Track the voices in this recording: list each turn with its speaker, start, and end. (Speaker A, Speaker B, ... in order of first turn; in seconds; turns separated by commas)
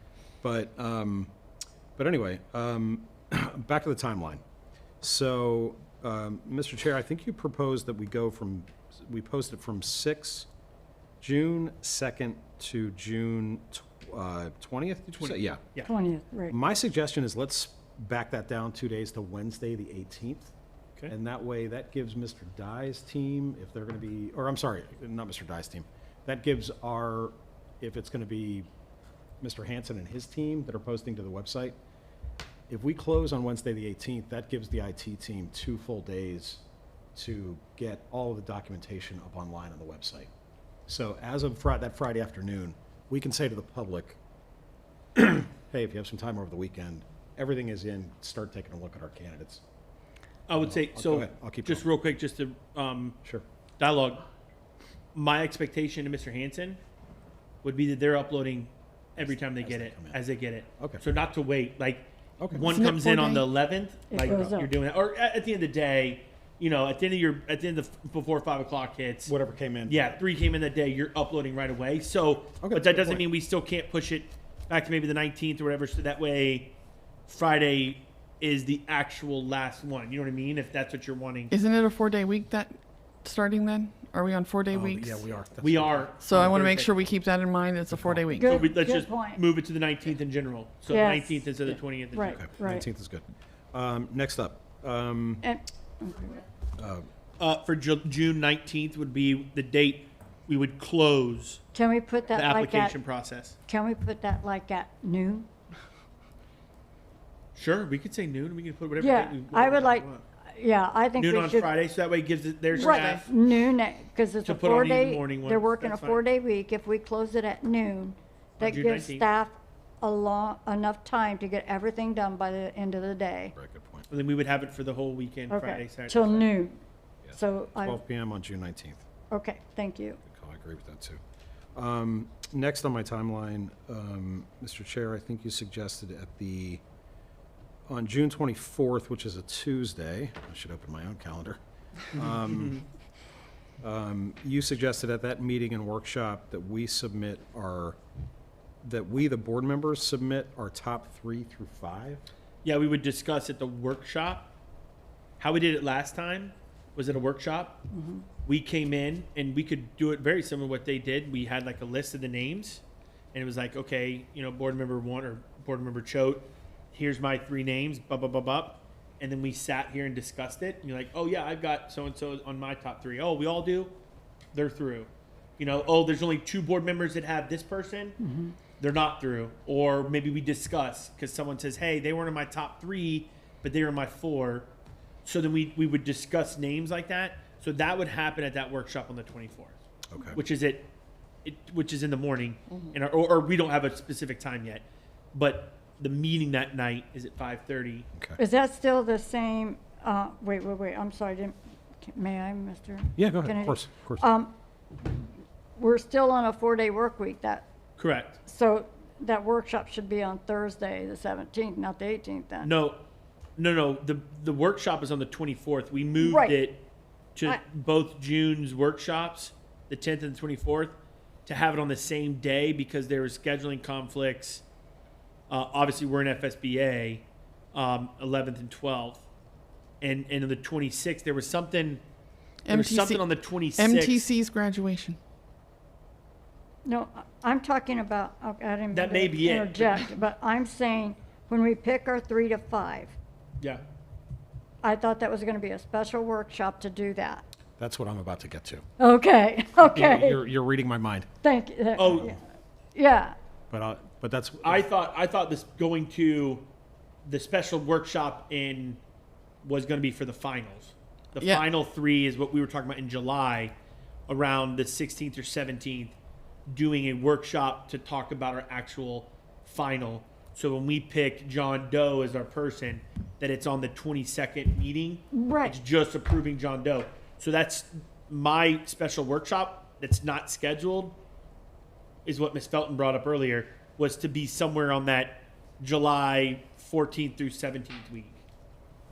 Speaker A: 0.4-1.3, Speaker A: 1.9-4.4, Speaker A: 5.0-10.5, Speaker A: 11.2-15.7, Speaker B: 15.2-15.9, Speaker C: 15.8-16.6, Speaker A: 16.5-20.5, Speaker A: 21.1-28.7, Speaker A: 29.4-31.8, Speaker A: 32.7-36.6, Speaker A: 37.1-40.3, Speaker A: 40.9-44.2, Speaker A: 45.1-49.6, Speaker B: 50.5-53.2, Speaker A: 50.6-51.8, Speaker B: 53.8-54.2, Speaker B: 55.1-56.8, Speaker B: 57.6-69.3, Speaker A: 59.2-60.2, Speaker A: 62.4-62.7, Speaker D: 62.6-63.5, Speaker C: 64.1-64.7, Speaker A: 69.2-70.2, Speaker B: 69.8-76.7, Speaker A: 72.6-73.2, Speaker B: 77.3-81.5, Speaker D: 81.5-85.2, Speaker A: 84.7-86.6, Speaker B: 85.6-86.9, Speaker D: 86.2-88.5, Speaker A: 87.9-88.3, Speaker C: 88.4-89.4, Speaker B: 88.4-92.4, Speaker C: 90.9-92.8, Speaker A: 92.2-95.5, Speaker C: 95.4-96.4, Speaker A: 96.8-97.1, Speaker B: 97.4-101.6, Speaker C: 101.7-103.0, Speaker B: 102.3-103.6, Speaker C: 103.7-105.5, Speaker B: 107.5-110.2, Speaker C: 109.0-111.7, Speaker B: 111.2-113.3, Speaker C: 112.7-123.5, Speaker D: 112.9-113.2, Speaker B: 114.4-116.2, Speaker B: 118.6-119.3, Speaker A: 123.5-124.0, Speaker B: 124.1-126.5, Speaker C: 125.5-126.8, Speaker A: 127.2-129.0, Speaker C: 127.3-128.0, Speaker C: 129.3-130.2, Speaker A: 130.2-131.2, Speaker A: 131.7-136.8, Speaker A: 137.9-141.6, Speaker A: 142.1-142.8, Speaker B: 142.1-142.8, Speaker A: 143.8-148.0, Speaker A: 148.8-152.2, Speaker B: 152.6-154.5, Speaker B: 155.4-157.8, Speaker C: 157.9-158.3, Speaker B: 158.4-162.8, Speaker B: 163.3-174.0, Speaker B: 174.5-178.2, Speaker C: 178.2-178.6, Speaker B: 178.8-184.7, Speaker B: 185.2-189.7, Speaker A: 190.1-190.4, Speaker B: 190.3-190.9, Speaker B: 191.4-198.1, Speaker C: 198.4-204.5, Speaker A: 203.2-204.2, Speaker C: 205.8-207.7, Speaker B: 208.0-208.4, Speaker C: 208.4-212.7, Speaker B: 212.6-213.0, Speaker B: 213.6-224.6, Speaker C: 216.2-216.6, Speaker B: 225.5-229.2, Speaker B: 230.0-232.0, Speaker D: 232.7-235.2, Speaker B: 232.7-234.2, Speaker C: 236.8-243.1, Speaker B: 238.9-240.2, Speaker C: 244.8-247.4, Speaker A: 247.8-248.8, Speaker C: 249.0-250.4, Speaker A: 249.8-251.3, Speaker C: 251.4-252.4, Speaker B: 252.0-252.3, Speaker C: 252.9-253.3, Speaker A: 253.7-254.8, Speaker B: 254.6-256.7, Speaker B: 257.2-259.0, Speaker B: 259.6-263.7, Speaker B: 264.3-266.1, Speaker B: 266.7-281.2, Speaker C: 275.3-275.8, Speaker B: 282.2-288.4